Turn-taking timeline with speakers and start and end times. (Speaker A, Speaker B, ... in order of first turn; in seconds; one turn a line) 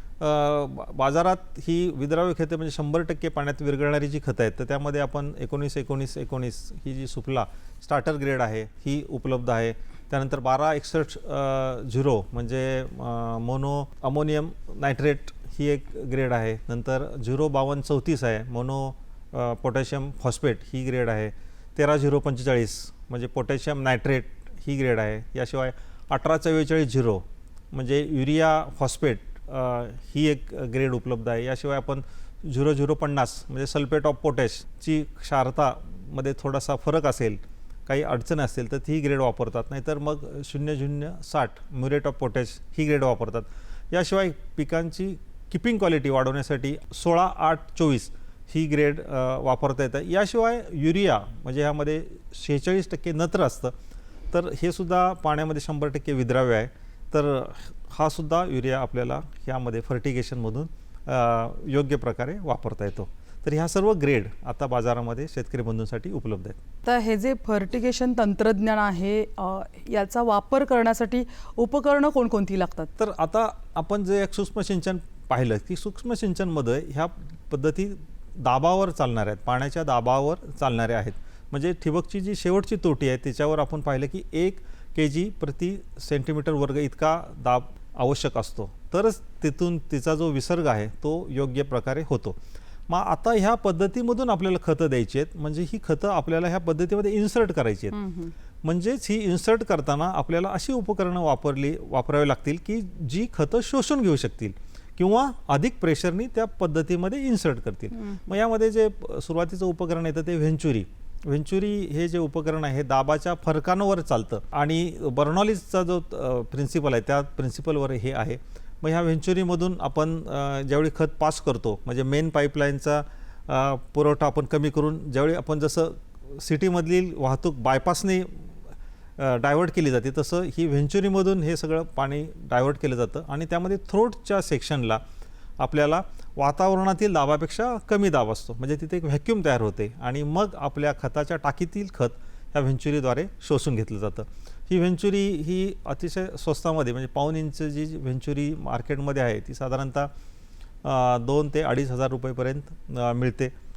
Speaker A: 0.2-53.7
Speaker A: 54.3-66.6
Speaker B: 66.8-72.9
Speaker A: 73.0-98.0
Speaker B: 97.9-98.3
Speaker A: 98.6-128.5
Speaker B: 108.0-108.3
Speaker A: 129.2-135.0
Speaker A: 135.6-150.1
Speaker A: 150.8-153.5